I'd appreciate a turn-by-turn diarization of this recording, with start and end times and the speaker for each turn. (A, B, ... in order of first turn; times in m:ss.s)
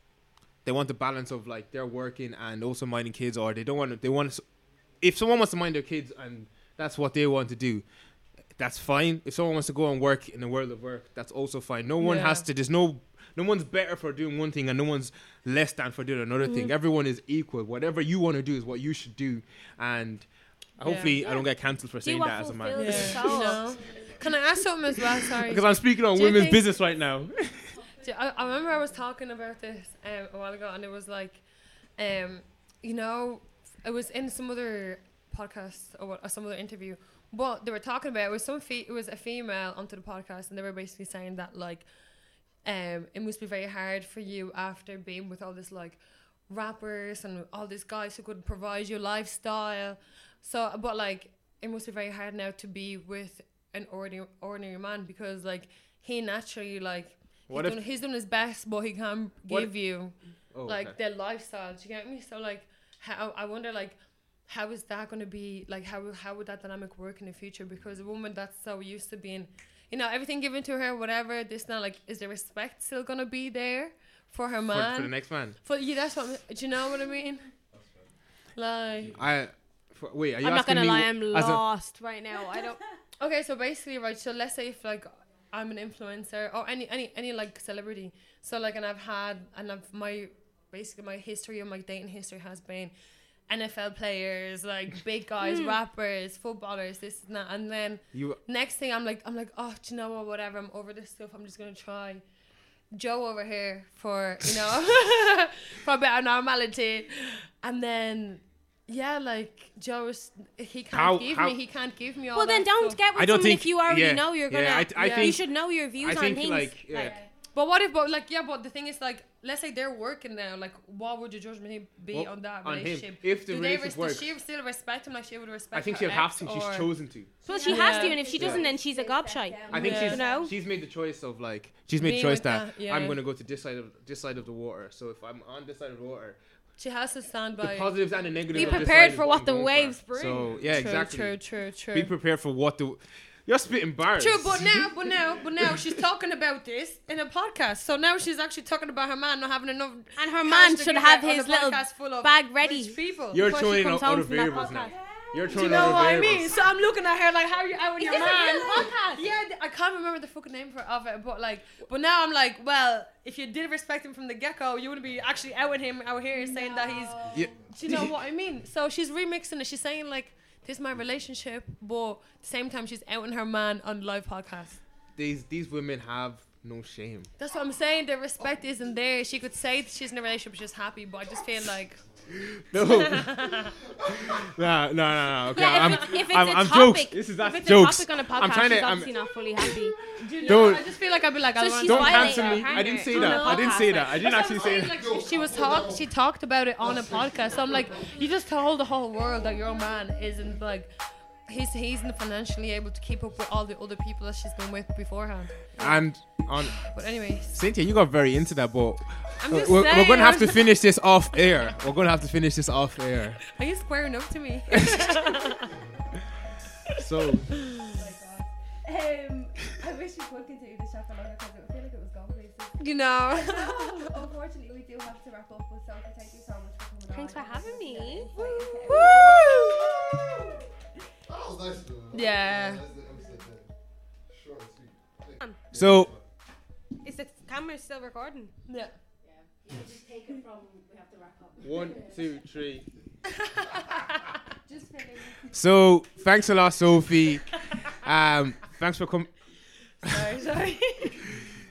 0:00.6-0:04.4 A
0:05.0-0:07.8 A
0:08.6-0:20.3 A
0:12.0-0:12.5 B
0:16.4-0:16.7 C
0:20.8-0:22.9 A
0:20.8-0:21.3 B
0:21.2-0:21.4 C
0:22.0-0:23.8 C
0:22.7-0:26.7 B
0:25.5-0:27.8 A
0:28.0-0:31.4 B
0:32.0-0:41.9 B
0:42.6-1:04.0 B
0:57.5-0:57.8 A
1:00.5-1:00.9 A
1:04.5-1:17.5 B
1:14.7-1:15.6 A
1:18.6-1:19.2 B
1:19.1-1:21.6 A
1:20.4-1:22.8 C
1:23.2-1:32.9 B
1:33.5-1:42.2 B
1:35.4-1:35.8 C
1:38.1-1:38.4 A
1:43.0-1:53.0 B
1:50.9-1:51.5 A
1:52.4-1:57.3 C
1:53.1-1:55.3 A
1:54.9-1:55.4 B
1:56.0-1:57.2 A
1:57.0-2:07.0 B
2:02.1-2:04.3 A
2:05.7-2:07.3 A
2:07.4-2:10.6 D
2:07.4-2:10.6 C
2:07.5-2:08.3 B
2:09.7-2:10.3 B
2:09.7-2:16.4 A
2:12.0-2:13.2 B
2:16.8-2:19.2 B
2:17.6-2:21.4 A
2:18.5-2:20.5 C
2:20.1-2:22.1 B
2:21.9-2:24.5 A
2:24.1-2:33.4 B
2:30.2-2:35.0 C
2:33.3-2:36.5 A
2:35.3-2:36.2 D
2:35.5-2:54.8 B
2:38.0-2:39.3 C
2:38.2-2:38.9 D
2:46.4-2:47.4 D
2:47.3-2:48.1 A
2:55.2-2:57.3 A
2:57.4-3:02.0 B
3:02.3-3:03.2 A
3:02.7-3:03.8 B
3:04.3-3:09.8 A
3:05.5-3:10.0 C
3:05.8-3:06.2 B
3:10.2-3:20.9 B
3:10.4-3:10.8 A
3:11.6-3:14.2 C
3:11.9-3:15.0 A
3:14.6-3:16.0 E
3:21.5-3:25.9 B
3:25.8-3:26.1 C
3:25.8-3:26.8 A
3:26.7-3:27.6 B
3:27.5-3:33.4 A
3:29.4-3:30.8 B
3:33.4-3:35.7 B
3:37.0-3:37.6 A
3:37.8-3:38.5 B
3:38.8-3:49.6 D
3:42.8-3:44.2 B
3:47.1-3:48.3 C
3:48.3-3:49.1 B
3:51.3-3:53.7 E
3:52.1-3:52.9 B
3:54.3-3:56.2 E
3:55.7-3:56.1 A
3:57.0-3:58.5 C
3:58.7-3:58.9 B
4:01.6-4:02.9 A
4:03.4-4:04.2 B
4:04.6-4:05.6 D
4:05.5-4:09.3 A
4:10.0-4:11.2 B